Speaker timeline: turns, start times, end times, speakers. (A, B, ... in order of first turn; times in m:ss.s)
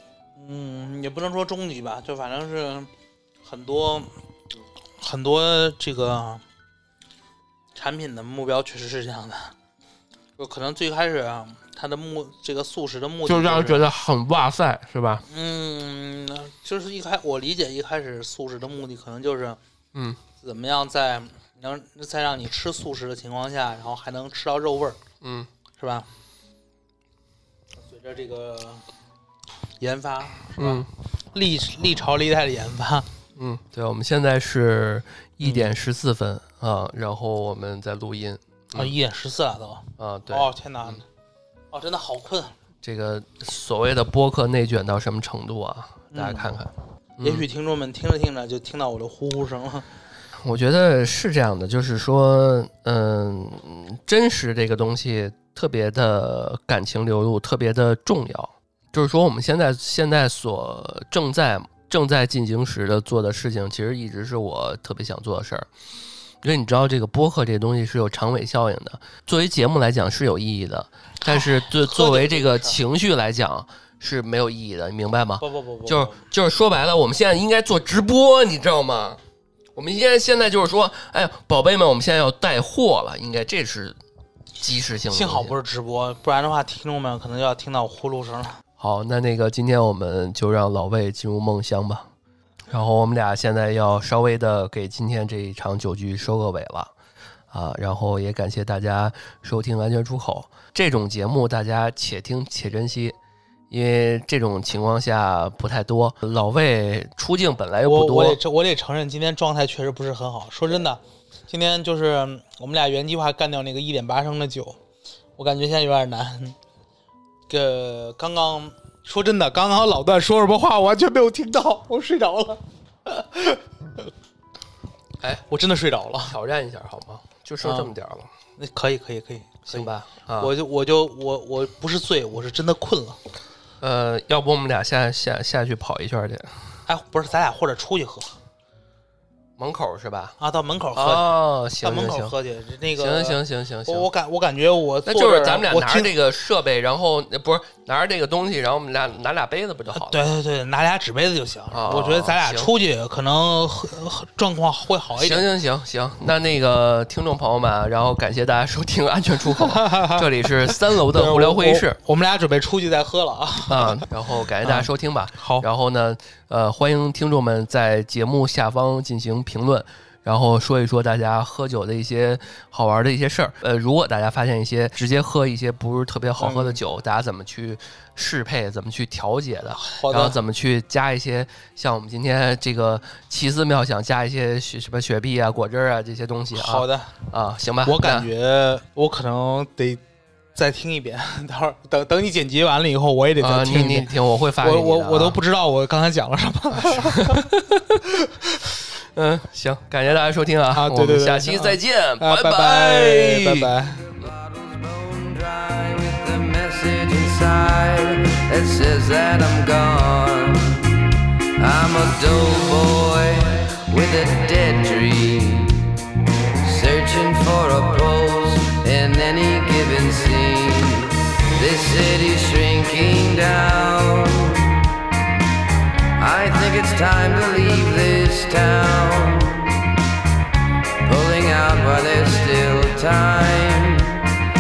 0:00.4-0:02.9 A
0:03.4-0:04.1 A
0:05.0-0:06.4 A
0:07.7-0:09.5 A
0:10.4-0:13.9 A
0:13.2-0:15.2 B
0:15.2-0:19.6 A
0:19.9-0:20.2 B
0:20.4-0:25.0 A
0:25.2-0:25.5 B
0:25.8-0:26.1 A
0:27.8-0:28.8 A
0:29.8-0:33.1 A
0:30.6-0:30.9 B
0:33.4-0:38.9 B
0:35.4-0:35.7 A
0:38.7-0:41.0 A
0:40.0-0:41.0 B
0:41.7-0:42.6 A
0:42.8-0:47.4 B
0:46.1-0:46.5 A
0:47.2-0:49.9 A
0:50.4-1:05.7 B
1:06.4-1:19.2 B
1:11.2-1:12.8 A
1:15.4-1:16.2 A
1:19.7-1:24.0 B
1:24.6-1:25.6 B
1:25.1-1:28.6 A
1:28.8-1:32.1 B
1:32.7-1:36.9 B
1:37.5-1:43.2 B
1:43.7-1:48.4 B
1:47.8-1:54.8 A
1:55.4-1:56.6 A
1:57.5-2:04.1 A
2:05.4-2:06.3 A
2:06.2-2:08.3 B
2:07.6-2:07.9 A
2:08.6-2:13.2 A
2:09.7-2:10.5 B
2:13.8-2:16.5 B
2:16.9-2:18.4 A
2:19.6-2:20.4 B
2:20.4-2:26.1 A
2:20.9-2:22.3 B
2:23.0-2:24.1 B
2:25.0-2:30.2 B
2:29.9-2:35.4 A
2:31.7-2:32.7 B
2:35.2-2:42.0 B
2:39.5-2:44.1 A
2:43.7-3:08.3 B
2:44.6-2:45.6 A
2:56.4-2:56.8 A
2:59.8-3:00.4 A
3:06.5-3:07.1 A
3:07.8-3:10.0 A
3:10.5-3:17.4 A
3:13.4-3:15.4 B
3:16.8-3:18.0 B
3:19.1-3:23.7 B
3:20.7-3:24.1 A
3:24.1-3:36.0 C
3:36.6-3:44.9 C
3:46.2-3:49.8 C
3:51.0-3:54.4 C